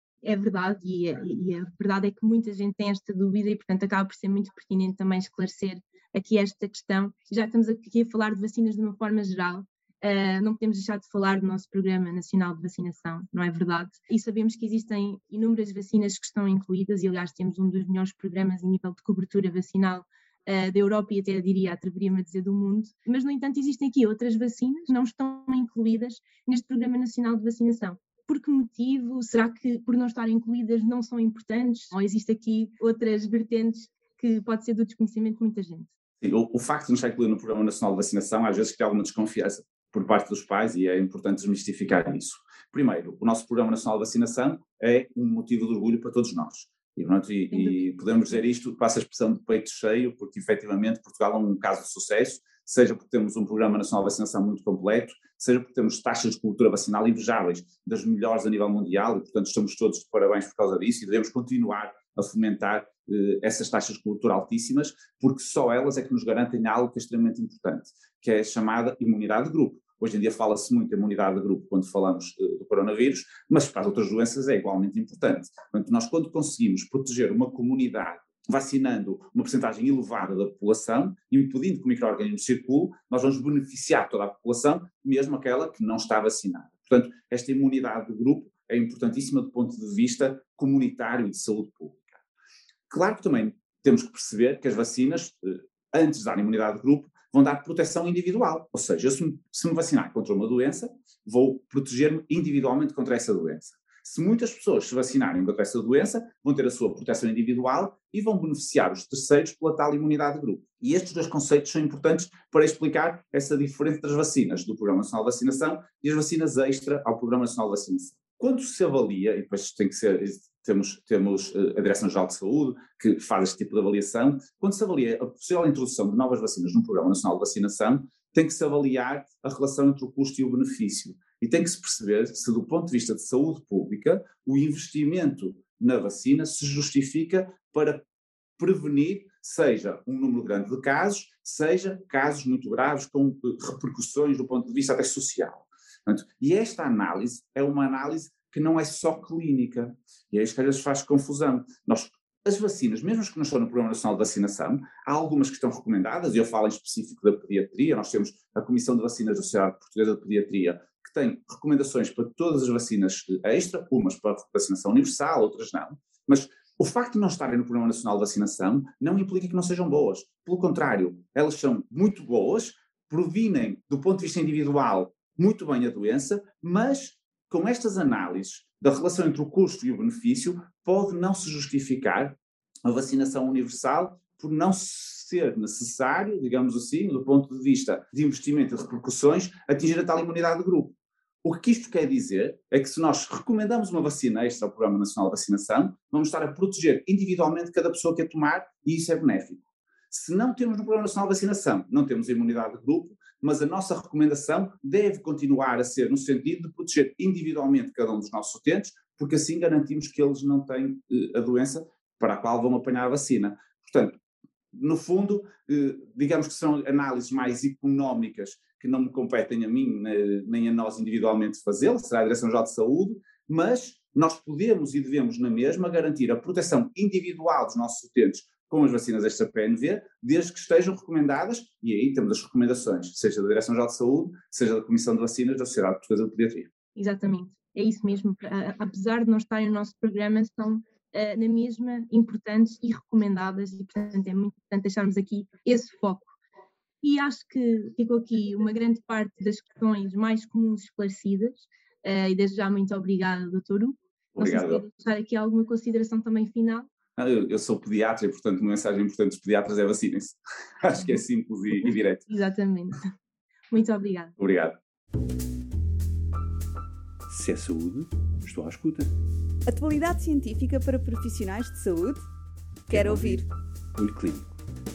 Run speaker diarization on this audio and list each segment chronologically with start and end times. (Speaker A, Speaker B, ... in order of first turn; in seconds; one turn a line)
Speaker A: 0.2-35.9
Speaker B: 36.2-92.2
Speaker A: 47.5-47.8
Speaker B: 92.9-138.1
Speaker B: 138.6-214.2
Speaker B: 214.7-236.7
Speaker A: 236.9-246.3
Speaker A: 247.0-256.9
Speaker B: 254.3-254.8
Speaker B: 257.2-262.2
Speaker A: 262.3-263.0
Speaker A: 263.7-264.4
Speaker B: 264.4-264.8
Speaker C: 267.3-269.1
Speaker D: 269.7-272.3
Speaker C: 272.9-273.4
Speaker D: 272.9-273.5
Speaker C: 274.0-274.6